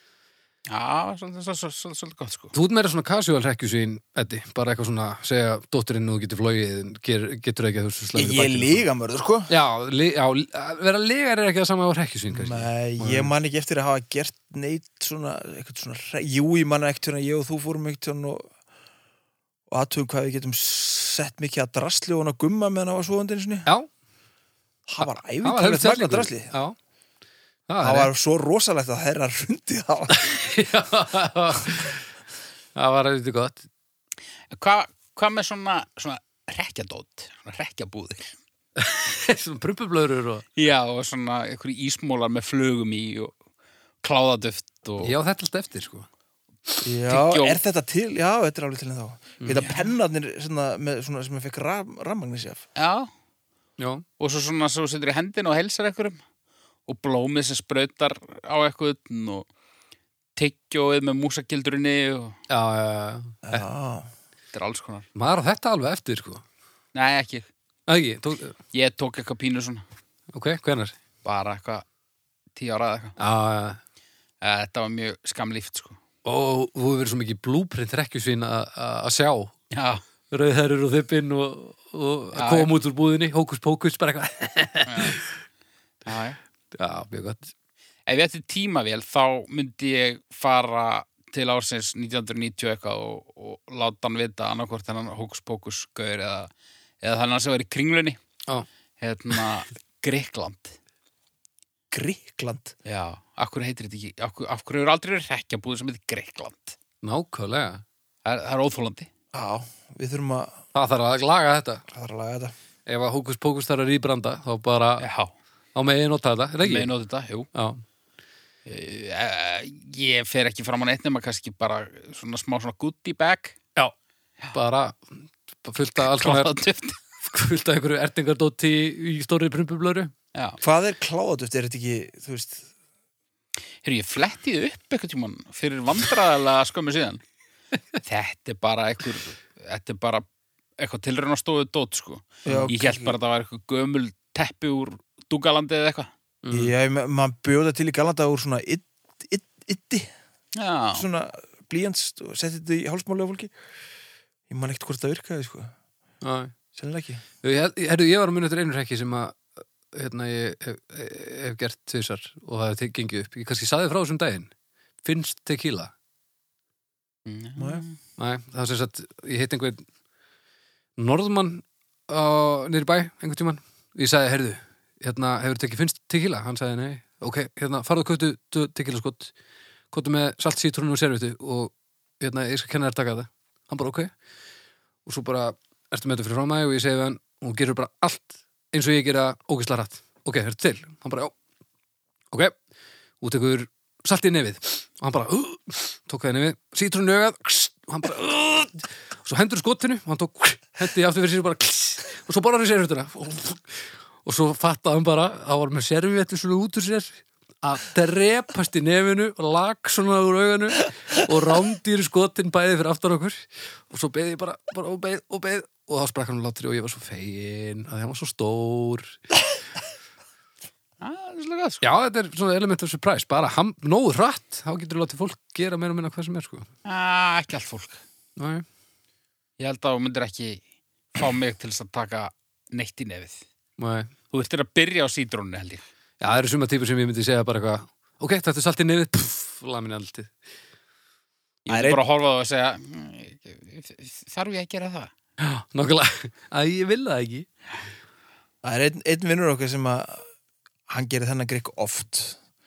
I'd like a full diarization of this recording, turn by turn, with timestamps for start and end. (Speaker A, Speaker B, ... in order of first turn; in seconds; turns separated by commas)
Speaker A: 0.7-2.5, Speaker B: 2.5-8.8, Speaker C: 8.1-9.5, Speaker B: 9.5-13.3, Speaker C: 12.3-18.5, Speaker C: 19.7-23.7, Speaker C: 24.9-26.5, Speaker B: 25.0-26.8, Speaker B: 27.7-28.1, Speaker C: 27.8-30.3, Speaker B: 30.2-32.0, Speaker B: 32.7-33.6, Speaker A: 34.5-38.4, Speaker B: 38.8-40.5, Speaker A: 40.6-43.3, Speaker A: 44.0-45.1, Speaker B: 45.0-46.1, Speaker C: 46.8-52.6, Speaker A: 47.1-47.6, Speaker A: 49.6-49.9, Speaker A: 52.8-53.1, Speaker B: 53.8-54.0, Speaker A: 54.2-56.2, Speaker A: 56.9-59.5, Speaker A: 60.4-62.4, Speaker B: 62.5-63.6, Speaker C: 63.5-64.1, Speaker A: 64.5-65.1, Speaker B: 65.1-66.4, Speaker A: 66.9-67.5, Speaker B: 67.9-68.6, Speaker A: 68.7-69.8, Speaker B: 70.3-71.0, Speaker A: 71.2-71.8, Speaker A: 72.5-73.2, Speaker B: 73.2-73.8, Speaker A: 74.4-76.0, Speaker B: 76.2-79.5, Speaker A: 79.7-80.0, Speaker B: 80.3-85.4, Speaker A: 82.3-82.7, Speaker A: 84.8-85.2, Speaker A: 86.0-86.4, Speaker B: 86.7-87.5, Speaker A: 88.1-96.5, Speaker A: 97.0-98.2, Speaker A: 99.0-100.8, Speaker C: 101.9-102.7, Speaker A: 102.8-106.8, Speaker B: 107.0-107.8, Speaker A: 108.2-109.1, Speaker C: 109.3-110.6, Speaker B: 110.7-111.8, Speaker C: 111.9-112.5, Speaker B: 112.8-115.0, Speaker A: 115.0-115.3, Speaker B: 115.7-116.9, Speaker A: 116.6-117.5, Speaker B: 117.5-117.8, Speaker A: 118.7-123.5, Speaker B: 124.5-125.0, Speaker B: 125.6-126.5, Speaker A: 126.0-127.0, Speaker B: 127.2-130.1, Speaker C: 130.6-132.6, Speaker A: 133.8-137.2, Speaker A: 138.0-140.2, Speaker A: 140.8-146.1, Speaker C: 142.4-143.1, Speaker B: 142.5-142.7, Speaker B: 146.4-146.7, Speaker C: 146.5-150.1, Speaker A: 150.6-151.0, Speaker C: 150.9-153.5, Speaker C: 154.5-155.7, Speaker B: 156.2-156.5, Speaker C: 156.7-157.2, Speaker B: 157.4-164.5, Speaker B: 165.0-165.9, Speaker A: 167.2-168.0, Speaker C: 167.6-167.8, Speaker B: 168.2-169.8, Speaker B: 171.0-179.3, Speaker B: 179.9-184.1, Speaker B: 185.0-191.3, Speaker B: 193.2-219.2, Speaker A: 221.0-221.9, Speaker B: 221.8-226.7, Speaker A: 226.8-228.0, Speaker B: 228.3-228.6, Speaker A: 229.6-230.6, Speaker A: 231.1-233.4, Speaker B: 233.8-234.1, Speaker A: 234.3-235.8, Speaker B: 236.2-240.3, Speaker A: 241.7-245.1, Speaker C: 241.7-242.0, Speaker B: 245.4-247.5, Speaker C: 248.6-250.2, Speaker C: 250.9-252.4